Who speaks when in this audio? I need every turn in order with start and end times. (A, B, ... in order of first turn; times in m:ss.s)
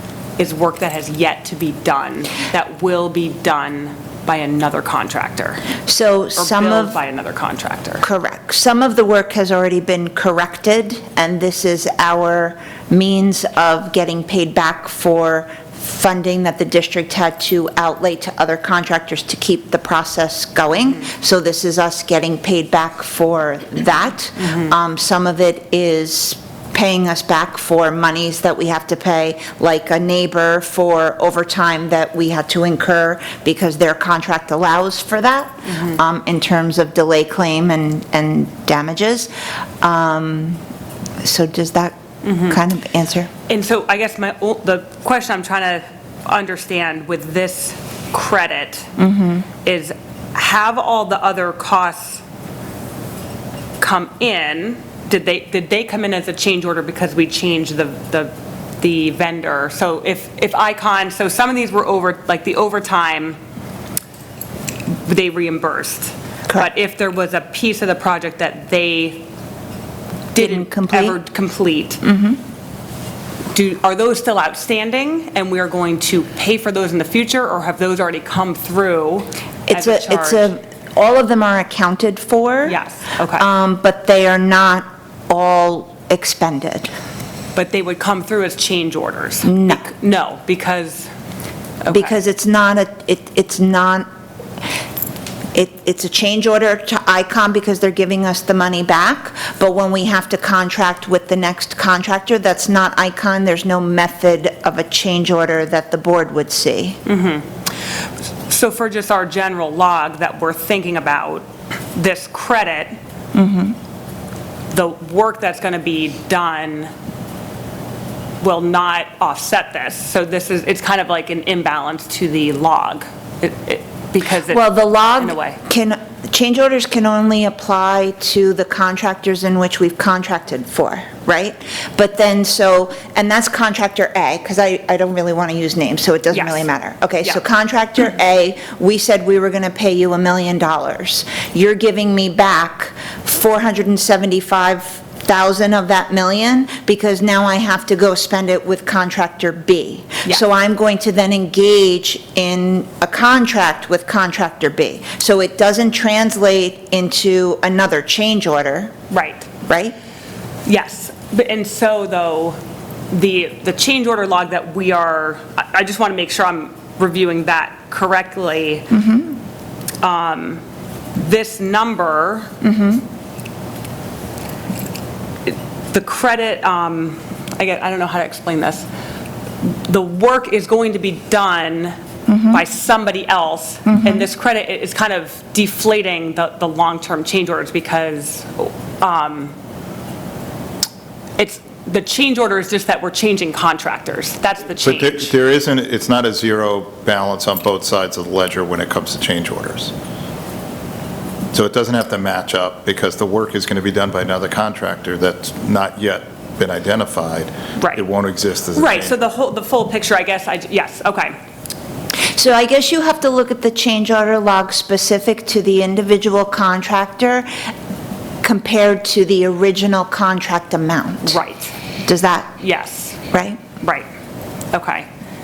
0:00.4-0:05.7 A
0:05.9-0:07.0 B
0:06.4-0:08.0 A
0:08.0-0:39.3 B
0:35.7-0:36.0 A
0:39.8-0:40.6 B
0:41.2-0:43.3 B
0:42.2-0:42.6 A
0:43.5-0:48.9 A
0:49.0-0:49.4 B
0:49.6-0:52.2 A
0:53.8-1:03.4 A
1:05.0-1:09.3 A
1:10.3-1:12.0 A
1:10.4-1:11.2 B
1:12.0-1:12.4 B
1:13.5-1:20.5 A
1:19.7-1:22.8 B
1:22.7-1:23.4 A
1:23.4-1:26.9 B
1:27.6-1:31.1 A
1:29.4-1:29.8 B
1:31.8-1:32.1 A
1:31.9-1:34.1 B
1:35.5-1:47.0 B
1:47.1-1:47.4 A
1:48.5-1:53.0 A
1:53.3-1:53.8 B
1:54.7-1:56.9 A
1:58.4-2:04.6 A
2:04.5-2:38.9 B
2:05.2-2:05.6 A
2:16.3-2:16.7 A
2:39.1-2:39.5 A
2:39.7-2:39.9 B
2:40.6-2:42.6 A
2:43.1-2:48.9 A
2:48.9-2:49.3 B
2:50.0-2:50.6 A
2:51.1-2:52.5 A
2:52.6-2:53.0 B
2:55.4-2:58.8 A
2:59.6-3:02.0 A
3:02.3-3:02.6 B
3:02.5-3:09.5 A
3:03.9-3:04.2 B
3:11.4-3:15.3 A
3:14.7-3:19.9 C
3:21.5-3:29.2 C
3:28.7-3:31.3 A
3:32.4-3:37.5 B
3:38.4-3:41.4 B
3:41.2-3:41.7 A
3:42.0-3:42.5 B
3:42.6-3:43.2 A
3:43.3-3:43.6 B
3:43.8-3:44.0 A
3:44.7-3:45.0 A